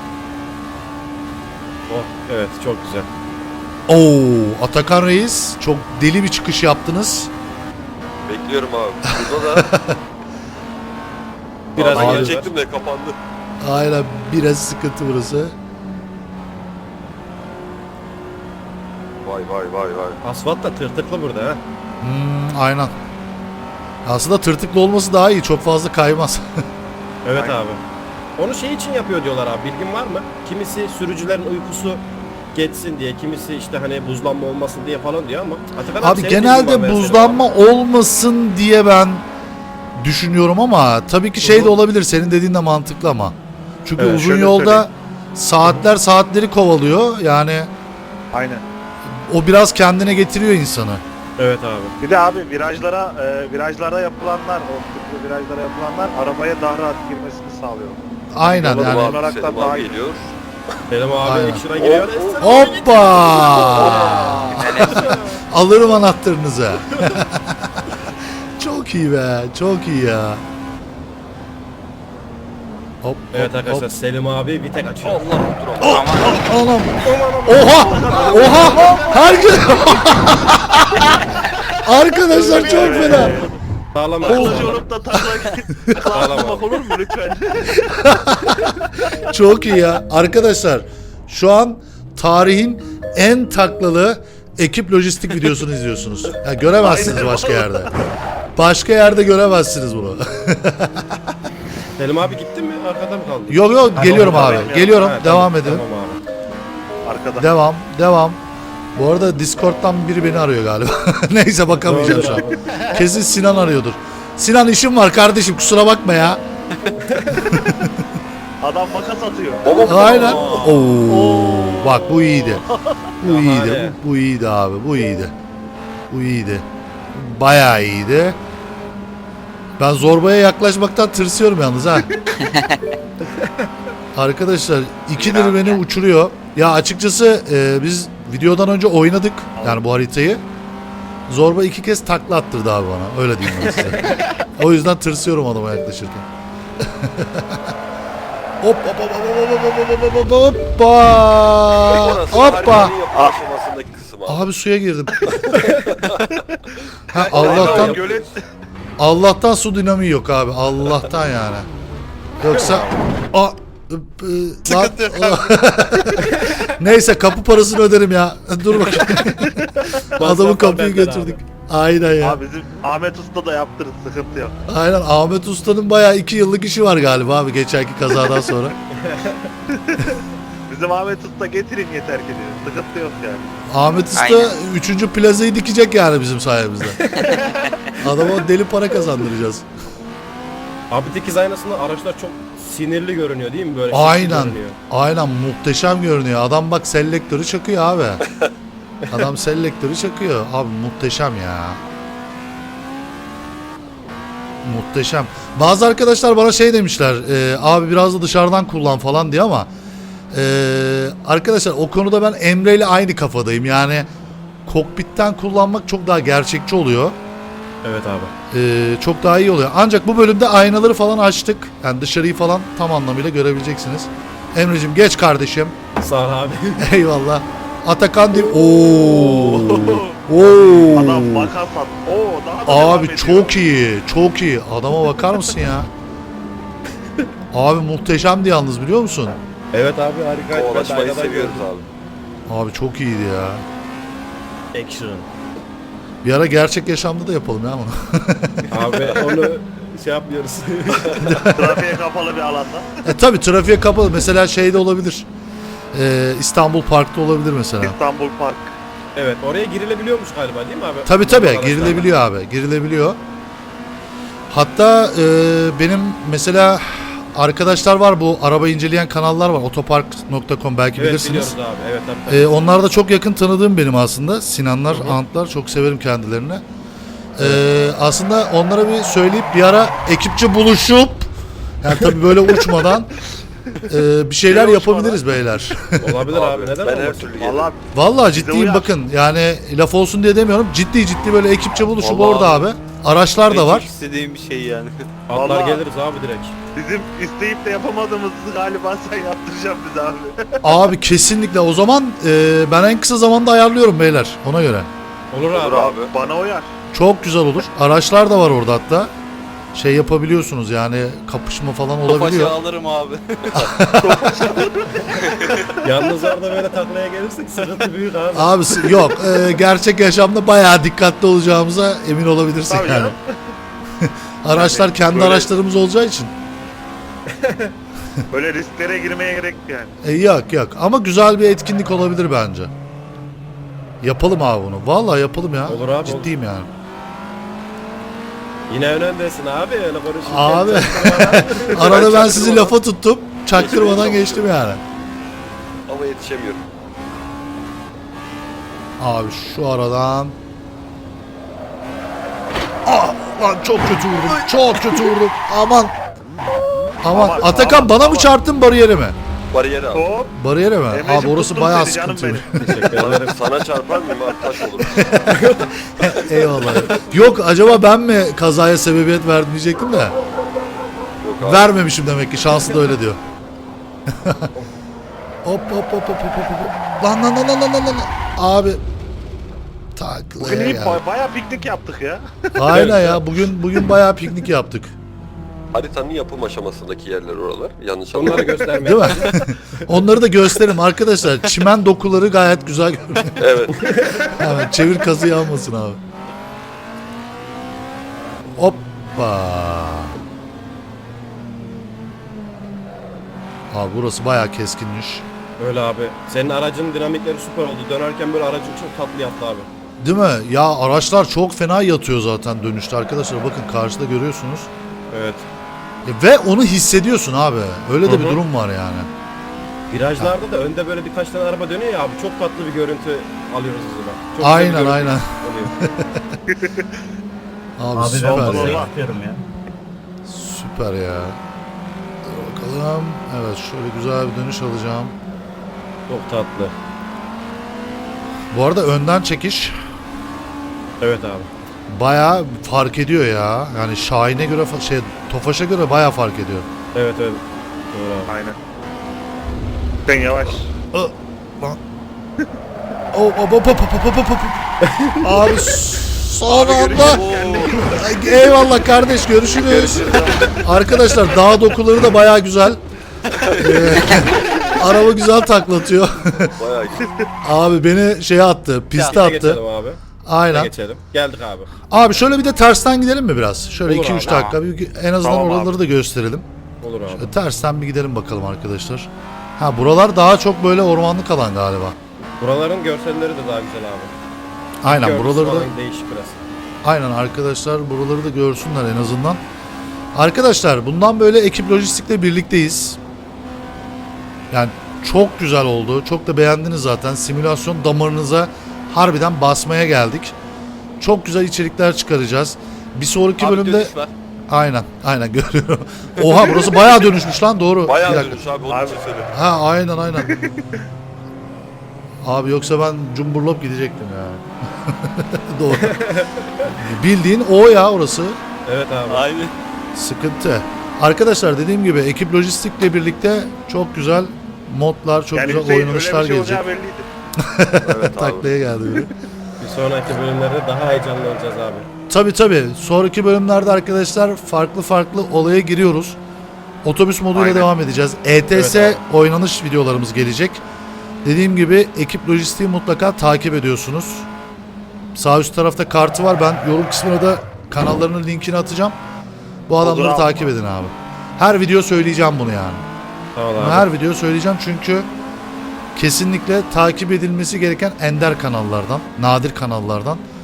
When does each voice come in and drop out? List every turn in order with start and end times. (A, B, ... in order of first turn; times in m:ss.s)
0:01.9-0:03.1 A
0:03.9-0:07.3 B
0:08.3-0:09.7 C
0:09.1-0:10.0 B
0:11.8-0:13.2 C
0:11.8-0:12.5 A
0:11.9-0:12.4 B
0:13.6-0:15.6 B
0:19.2-0:20.2 C
0:20.2-0:21.6 A
0:22.0-0:22.9 B
0:24.0-0:26.6 B
0:27.2-0:27.8 A
0:28.4-0:32.0 A
0:32.6-0:37.4 A
0:36.0-0:39.2 B
0:40.0-0:47.7 B
0:41.4-0:41.7 A
0:44.0-0:44.3 A
0:44.1-0:44.9 D
0:48.3-0:48.6 D
0:49.1-0:51.0 B
0:51.4-0:52.0 A
0:52.0-1:00.1 D
0:58.3-0:59.2 B
0:58.5-1:00.3 C
1:00.9-1:05.4 A
1:01.2-1:01.6 B
1:01.7-1:02.8 C
1:02.4-1:07.9 B
1:03.3-1:04.4 C
1:04.5-1:05.1 E
1:08.6-1:10.4 B
1:13.0-1:13.9 B
1:13.3-1:15.4 A
1:15.0-1:16.2 C
1:15.8-1:21.3 B
1:15.8-1:16.5 E
1:17.4-1:20.1 D
1:21.8-1:23.4 B
1:22.3-1:23.6 D
1:22.3-1:23.4 A
1:23.9-1:24.8 A
1:24.2-1:27.8 D
1:24.2-1:26.0 B
1:26.1-1:26.8 A
1:27.7-1:28.8 B
1:29.3-1:37.9 B
1:36.8-1:37.9 D
1:38.6-1:41.2 B
1:42.0-1:46.2 A
1:43.5-1:45.8 B
1:44.1-1:45.0 D
1:47.1-1:47.5 D
1:47.4-1:48.4 B
1:49.0-1:56.4 B
1:51.7-1:52.7 A
1:56.9-1:57.6 A
1:57.4-1:57.9 B
1:58.6-2:02.6 D
1:59.6-2:00.8 C
1:59.8-2:02.6 B
2:03.2-2:05.3 B
2:03.2-2:04.0 A
2:06.1-2:08.4 B
2:09.8-2:12.1 B
2:12.4-2:12.8 E
2:13.2-2:13.7 A
2:14.1-2:20.4 B
2:15.2-2:15.8 E
2:19.6-2:19.8 D
2:21.3-2:26.3 B
2:26.8-2:27.7 B
2:28.6-2:33.0 B
2:31.9-2:34.4 C
2:33.1-2:33.4 D
2:34.3-2:35.3 B
2:35.5-2:35.9 A
2:35.8-2:36.4 C
2:37.1-2:38.0 B
2:37.3-2:38.3 A
2:37.4-2:38.4 D
2:37.4-2:38.0 C
2:39.0-2:41.7 B
2:42.4-2:52.4 B
2:42.5-2:43.0 A
2:44.7-2:46.5 D
2:50.2-2:51.4 A
2:52.2-2:54.6 D
2:54.7-2:58.8 B
2:58.9-2:59.5 A
2:59.8-3:00.1 D
3:00.7-3:03.5 D
3:03.7-3:07.2 B
3:04.2-3:04.5 E
3:08.0-3:09.7 B
3:10.9-3:14.8 A
3:13.9-3:18.2 B
3:19.1-3:21.8 B
3:24.6-3:29.7 B
3:30.3-3:34.1 B
3:34.7-3:37.2 B
3:37.8-3:38.3 A
3:38.5-3:45.8 B
3:46.0-3:46.9 A
3:46.8-3:51.5 B
3:48.5-3:51.0 A
3:50.9-3:53.6 D
3:52.7-3:55.9 B
3:57.5-3:59.4 B
3:59.7-4:01.6 A
4:00.5-4:01.8 C
4:02.5-4:03.6 B
4:04.7-4:05.3 A
4:06.2-4:08.7 B
4:08.7-4:11.2 A
4:11.0-4:11.3 C
4:11.2-4:11.9 B
4:11.5-4:12.9 D
4:13.0-4:15.3 B
4:15.9-4:18.0 B
4:17.8-4:18.8 D
4:19.2-4:22.1 A
4:21.1-4:23.2 B
4:24.5-4:31.6 B
4:31.0-4:32.6 A
4:32.3-4:36.6 B
4:34.9-4:35.2 A
4:37.4-4:41.3 B
4:37.4-4:37.6 A
4:41.8-4:43.1 B
4:43.9-4:46.2 B
4:44.5-4:45.3 D
4:46.0-4:47.3 A
4:46.3-4:47.8 C
4:47.3-4:47.8 D
4:47.9-4:53.9 B
4:48.3-4:48.9 D
4:52.0-4:52.7 E
4:53.5-4:55.0 E
4:55.3-4:56.6 A
4:55.3-4:55.8 D
4:56.8-5:00.8 D
5:00.6-5:04.9 B
5:05.3-5:05.9 A
5:05.5-5:06.2 C
5:05.6-5:06.7 D
5:06.9-5:09.1 B
5:09.7-5:12.6 B
5:12.1-5:13.7 E
5:13.5-5:14.6 B
5:14.0-5:15.8 D
5:15.2-5:15.6 E
5:15.8-5:19.1 A
5:18.4-5:23.2 B
5:22.7-5:23.3 D
5:24.0-5:26.3 B
5:24.6-5:25.5 D
5:27.3-5:27.7 A
5:28.3-5:29.9 D
5:30.0-5:32.7 B
5:34.0-5:36.7 B
5:35.7-5:36.3 A
5:38.7-5:42.2 A
5:40.3-5:44.8 B
5:41.8-5:42.8 C
5:43.5-5:44.5 C
5:45.9-5:46.6 C
5:49.0-5:50.4 B
5:52.9-5:55.9 B
5:57.0-5:59.2 B
5:57.1-5:58.3 D
5:59.5-6:00.1 C
5:59.9-6:00.3 D
6:00.4-6:02.7 B
6:00.9-6:02.5 D
6:02.6-6:03.4 A
6:03.0-6:05.2 C
6:04.8-6:10.2 B
6:05.3-6:05.7 A
6:11.2-6:11.6 C
6:11.4-6:13.2 B
6:14.1-6:14.5 B
6:15.4-6:18.8 B
6:20.0-6:21.0 B
6:20.4-6:22.9 D
6:22.5-6:25.0 B
6:22.7-6:23.2 A
6:25.7-6:29.0 C
6:28.1-6:30.0 A
6:28.8-6:33.4 B
6:33.4-6:33.8 C
6:33.7-6:34.4 A
6:34.3-6:36.0 B
6:38.5-6:40.2 B
6:43.7-6:45.2 B
6:45.6-6:49.7 A
6:50.0-6:54.7 B
6:55.1-6:55.5 A
6:56.0-6:59.1 B
6:58.1-6:58.4 A
6:59.9-7:05.8 A
7:04.4-7:06.4 B
7:06.5-7:06.9 D
7:07.8-7:08.9 B
7:08.0-7:09.2 A
7:08.0-7:09.4 D
7:10.2-7:11.4 B
7:12.2-7:15.1 B
7:16.1-7:16.8 A
7:18.5-7:19.8 B
7:21.0-7:21.5 A
7:21.9-7:26.7 B
7:26.9-7:27.4 A
7:27.9-7:28.3 A
7:28.3-7:28.6 D
7:30.1-7:30.7 D
7:30.9-7:31.8 B
7:33.1-7:34.7 B
7:34.8-7:35.2 A
7:35.2-7:42.8 B
7:35.2-7:35.7 D
7:36.5-7:38.0 D
7:36.9-7:37.9 C
7:39.6-7:40.6 C
7:43.5-7:46.6 B
7:46.6-7:47.1 C
7:47.4-7:49.6 B
7:48.9-7:51.7 A
7:50.2-7:50.7 B
7:51.9-7:56.5 B
7:53.8-7:54.5 A
7:54.2-7:54.6 E
7:55.2-7:55.7 D
7:56.8-7:57.4 A
7:57.2-8:02.0 B
8:02.4-8:04.1 A
8:04.8-8:05.7 B
8:04.8-8:06.4 A
8:06.8-8:09.4 B
8:10.1-8:13.0 B
8:14.5-8:20.4 B
8:21.0-8:23.9 B
8:24.5-8:28.4 B
8:27.8-8:29.3 C
8:28.7-8:29.0 D
8:29.3-8:30.4 B
8:30.2-8:30.5 D
8:32.2-8:36.0 B
8:35.7-8:36.8 A
8:36.7-8:38.4 B
8:38.7-8:39.3 A
8:39.1-8:39.5 C
8:39.9-8:46.7 B
8:45.3-8:47.0 D
8:47.4-8:49.1 B
8:47.8-8:48.5 C
8:49.6-8:51.9 A
8:52.1-8:56.2 B
8:56.8-9:00.6 B
8:57.4-8:57.7 A
8:58.5-8:59.0 A
9:01.2-9:04.3 B
9:05.2-9:09.0 B
9:09.7-9:12.8 B
9:09.8-9:10.5 D
9:13.4-9:13.9 A
9:13.6-9:15.1 B
9:16.0-9:20.2 B